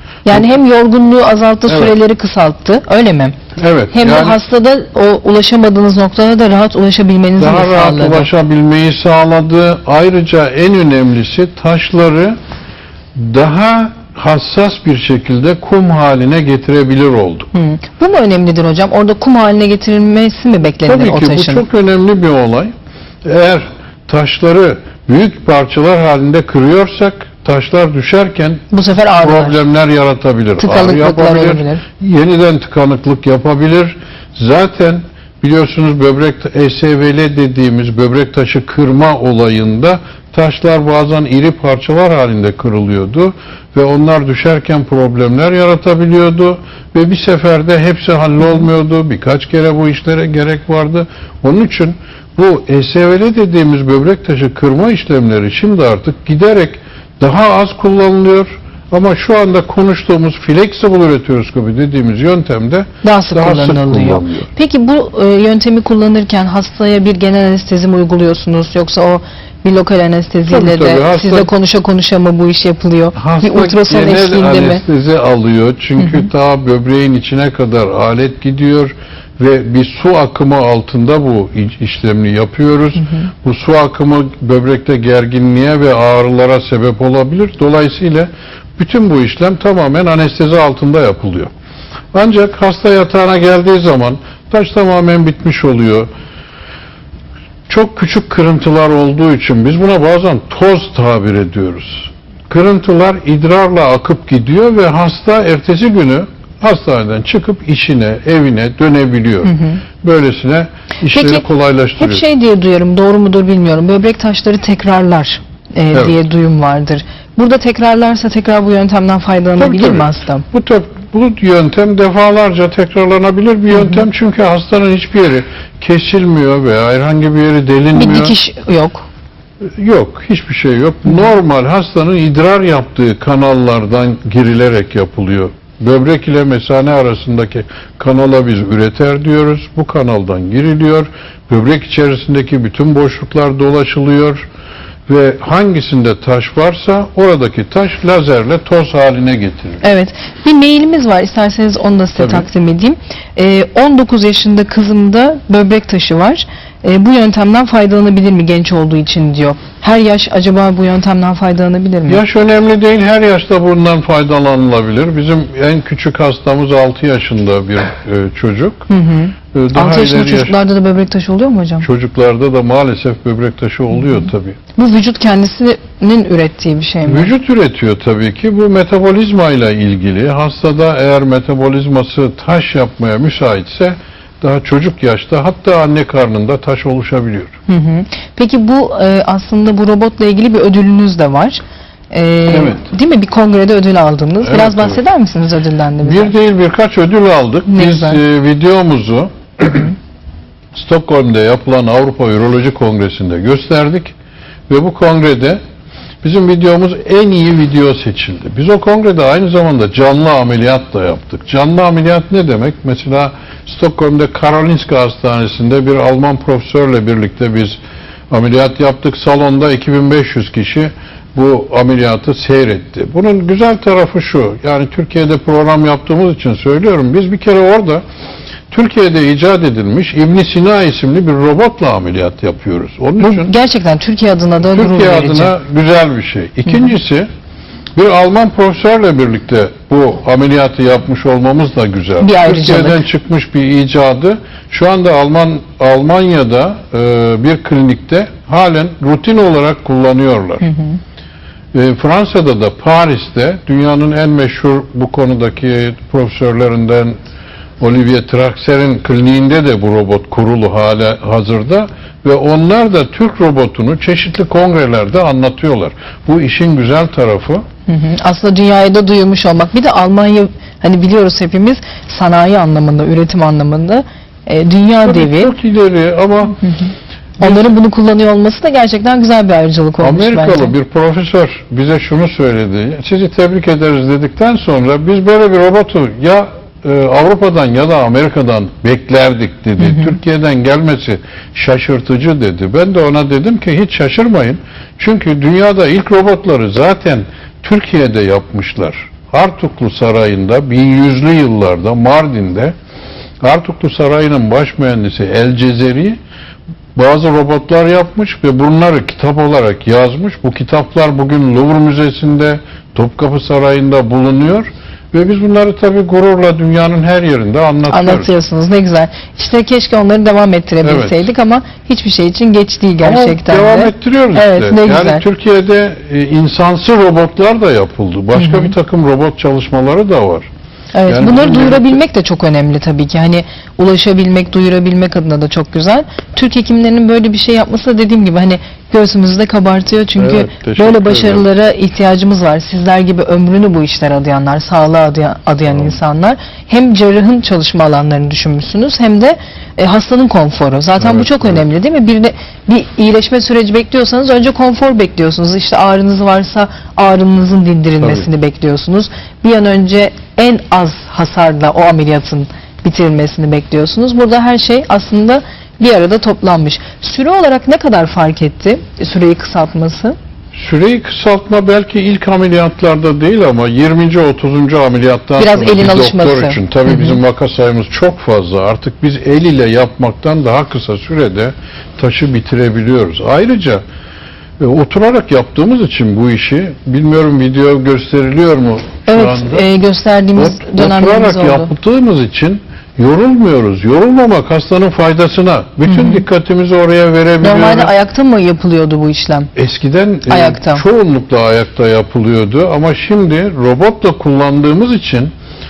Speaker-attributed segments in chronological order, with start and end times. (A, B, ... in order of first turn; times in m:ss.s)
0:00.2-0:03.3 A
0:01.7-0:01.9 B
0:03.6-0:04.4 B
0:03.9-0:08.3 A
0:07.4-0:12.4 B
0:13.1-0:17.5 B
0:17.5-0:21.6 A
0:20.8-0:22.7 B
0:23.2-1:04.5 B
0:28.7-0:29.6 A
0:30.6-0:31.8 A
1:03.0-1:14.8 A
1:10.5-1:11.5 B
1:13.2-1:31.5 B
1:16.0-1:16.3 A
1:32.1-1:36.1 B
1:37.7-1:52.2 B
1:49.4-1:49.8 A
1:51.1-1:51.4 A
1:52.0-2:00.4 A
1:59.6-2:08.4 B
2:07.9-2:09.0 A
2:09.8-2:24.4 B
2:25.1-2:29.8 B
2:29.8-2:42.2 A
2:32.2-2:32.5 B
2:42.1-2:48.9 B
2:48.9-2:51.9 A
2:49.5-2:50.6 B
2:51.8-2:54.6 B
2:54.8-2:57.3 A
2:57.0-3:07.5 B
3:07.7-3:16.3 A
3:12.5-3:12.8 B
3:14.4-3:15.0 B
3:16.0-3:19.9 B
3:17.7-3:18.2 A
3:20.7-3:24.1 B
3:24.7-3:25.6 B
3:26.2-3:37.8 B
3:38.3-3:48.0 B
3:48.7-3:53.5 B
3:53.2-3:55.5 A
3:54.7-3:57.3 B
3:57.9-4:10.6 B
4:02.2-4:03.0 A
4:10.6-4:11.0 A
4:11.7-4:17.2 B
4:17.8-4:27.6 B
4:27.9-4:35.5 A
4:35.0-4:36.6 B
4:37.4-4:40.7 A
4:37.4-4:37.7 B
4:40.0-5:02.7 B
4:49.8-4:50.1 A
5:03.4-5:06.2 B
5:06.9-5:18.3 B
5:17.9-5:25.2 A
5:20.8-5:21.2 B
5:23.0-5:30.5 B
5:28.3-5:28.7 A
5:30.9-6:10.2 A
5:31.1-5:32.0 B
5:40.2-5:41.4 B
5:51.0-5:51.6 B
6:10.5-6:23.8 B
6:15.4-6:17.2 A
6:24.6-6:29.6 B
6:29.1-6:31.7 A
6:30.4-6:37.9 B
6:35.9-6:36.2 A
6:37.4-6:39.5 A
6:39.5-6:45.3 B
6:40.3-6:40.8 A